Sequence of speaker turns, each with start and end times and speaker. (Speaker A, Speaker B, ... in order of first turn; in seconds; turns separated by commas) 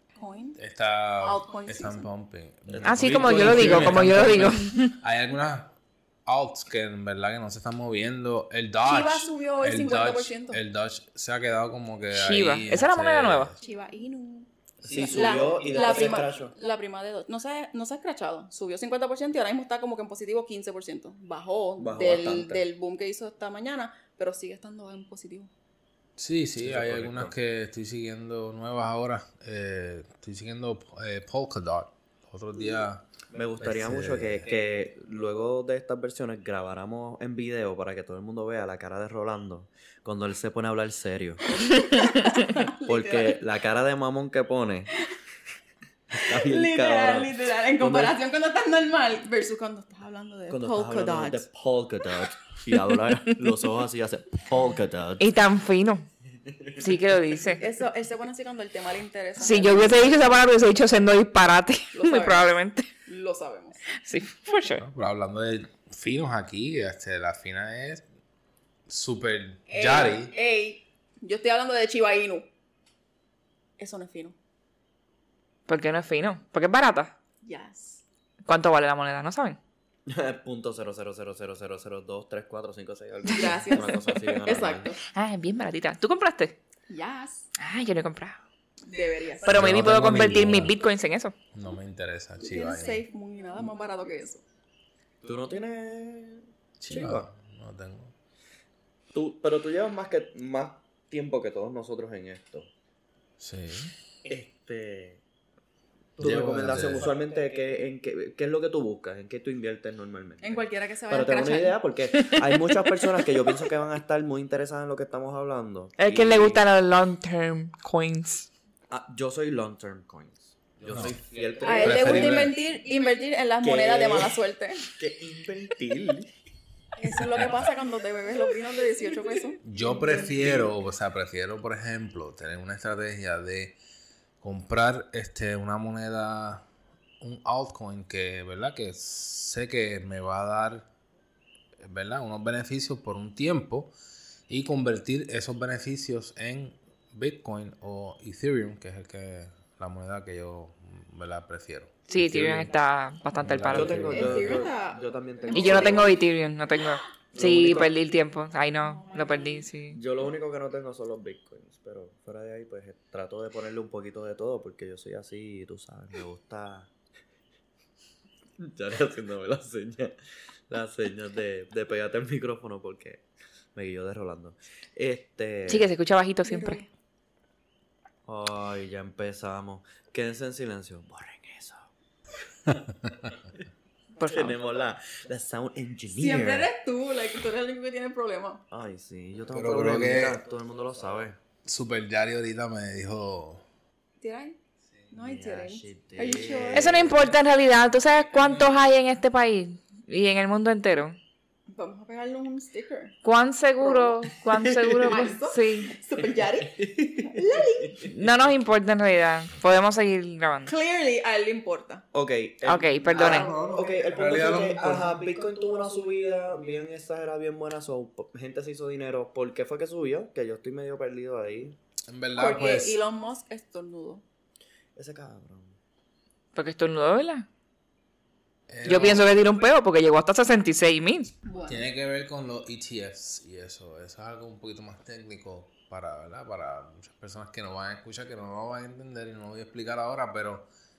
Speaker A: 0.2-0.6, Speaker B: 0.6-5.8, Speaker A: 1.2-2.1, Speaker C: 2.7-4.0, Speaker D: 2.8-4.9, Speaker B: 6.2-13.6, Speaker A: 8.8-10.6, Speaker D: 12.1-13.5, Speaker A: 13.6-25.5, Speaker C: 14.8-16.5, Speaker B: 14.9-16.2, Speaker C: 21.8-22.6, Speaker B: 26.2-33.1, Speaker C: 26.6-27.3, Speaker C: 33.3-41.5, Speaker B: 33.6-34.5, Speaker A: 41.5-43.4, Speaker C: 42.7-44.9, Speaker C: 46.1-48.1, Speaker A: 46.2-51.5, Speaker C: 50.5-55.3, Speaker D: 55.2-56.1, Speaker C: 56.5-56.8, Speaker D: 56.8-57.6, Speaker A: 57.6-60.4, Speaker D: 59.4-62.9, Speaker A: 61.9-63.9, Speaker D: 63.9-64.8, Speaker B: 64.8-68.0, Speaker B: 68.9-70.3, Speaker A: 69.7-72.5, Speaker A: 73.8-74.4, Speaker D: 75.7-77.2, Speaker A: 77.4-78.0, Speaker D: 78.5-79.6, Speaker C: 80.1-85.0, Speaker A: 83.3-85.0, Speaker D: 85.1-86.6, Speaker A: 86.9-87.5, Speaker D: 87.6-88.4, Speaker A: 88.8-89.8, Speaker D: 89.4-91.3, Speaker B: 89.5-90.8, Speaker B: 91.5-93.0, Speaker A: 92.4-94.4, Speaker C: 95.2-97.3, Speaker B: 96.8-98.1, Speaker C: 99.1-102.7, Speaker B: 103.4-103.9, Speaker C: 104.3-105.2, Speaker C: 106.2-116.6, Speaker B: 106.2-107.1, Speaker A: 110.4-111.8, Speaker D: 112.1-112.7, Speaker D: 116.0-118.5, Speaker C: 118.9-122.5, Speaker B: 120.8-122.6, Speaker A: 121.6-124.9, Speaker C: 123.6-124.4, Speaker C: 124.9-126.3, Speaker A: 127.0-130.8, Speaker B: 129.6-133.8, Speaker B: 134.4-136.6, Speaker B: 137.2-140.9, Speaker B: 141.8-143.9, Speaker B: 144.5-152.7, Speaker D: 152.1-154.5, Speaker B: 153.4-154.6, Speaker C: 153.7-156.1, Speaker A: 154.1-156.1, Speaker D: 155.5-160.0, Speaker C: 157.3-157.9, Speaker A: 158.8-159.7, Speaker C: 159.9-166.9, Speaker C: 168.6-170.1, Speaker C: 170.7-173.2, Speaker C: 173.8-175.9, Speaker D: 175.7-176.8, Speaker A: 176.4-176.9, Speaker C: 178.2-181.9, Speaker D: 184.2-184.6, Speaker C: 184.2-186.7, Speaker A: 186.2-188.6, Speaker C: 188.7-191.4, Speaker B: 189.5-190.4, Speaker B: 191.6-193.6, Speaker A: 194.2-194.6, Speaker A: 195.1-197.1, Speaker C: 195.2-197.3, Speaker D: 196.7-201.2, Speaker A: 201.7-203.2, Speaker D: 203.2-205.9, Speaker A: 203.8-204.2, Speaker C: 204.6-205.1, Speaker A: 205.0-208.1, Speaker C: 206.7-208.1, Speaker D: 208.1-210.7, Speaker A: 210.7-212.1, Speaker C: 212.1-221.8, Speaker D: 212.6-213.5, Speaker A: 213.1-213.6, Speaker B: 213.2-215.2, Speaker B: 222.1-223.0, Speaker A: 222.4-224.2, Speaker C: 224.9-225.8, Speaker D: 226.6-227.5, Speaker B: 228.7-229.3, Speaker D: 228.8-231.3, Speaker A: 231.4-231.9, Speaker B: 231.7-240.7